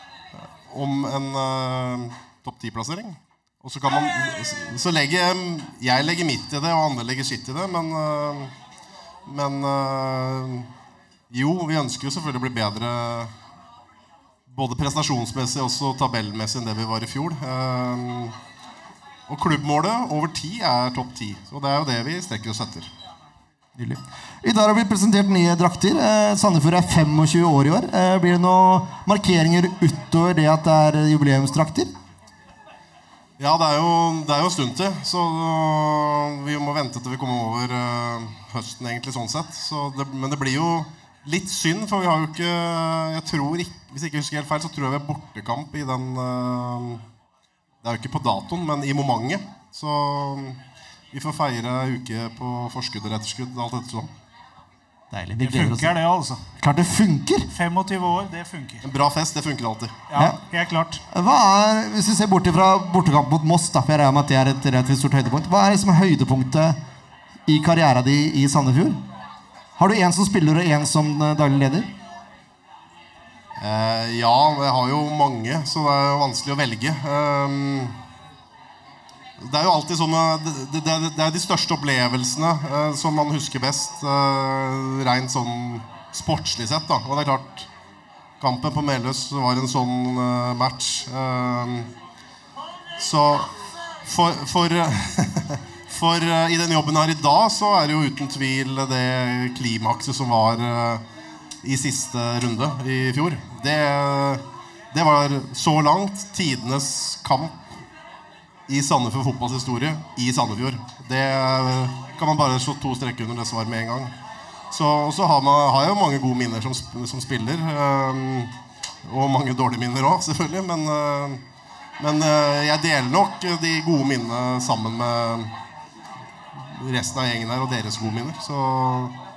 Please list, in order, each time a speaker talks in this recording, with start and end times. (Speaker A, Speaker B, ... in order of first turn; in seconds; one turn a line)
Speaker A: 0.7-8.5
Speaker A: 9.3-10.7
Speaker A: 11.3-13.3
Speaker A: 14.5-18.4
Speaker A: 19.3-22.9
Speaker B: 23.8-31.9
Speaker A: 33.4-47.0
Speaker A: 47.8-50.6
Speaker A: 51.1-54.1
Speaker B: 55.1-56.0
Speaker C: 55.4-56.4
Speaker B: 56.6-57.5
Speaker C: 57.5-58.9
Speaker A: 58.8-59.9
Speaker C: 60.1-61.0
Speaker B: 61.1-66.8
Speaker B: 67.5-69.0
Speaker B: 69.8-71.9
Speaker A: 73.6-78.0
Speaker A: 79.4-87.7
Speaker A: 88.4-91.9
Speaker A: 93.0-93.5
Speaker A: 94.0-101.0
Speaker A: 101.6-107.5
Speaker A: 108.7-114.1
Speaker A: 114.7-118.5
Speaker A: 119.0-121.4
Speaker A: 122.0-125.5
Speaker A: 126.5-129.1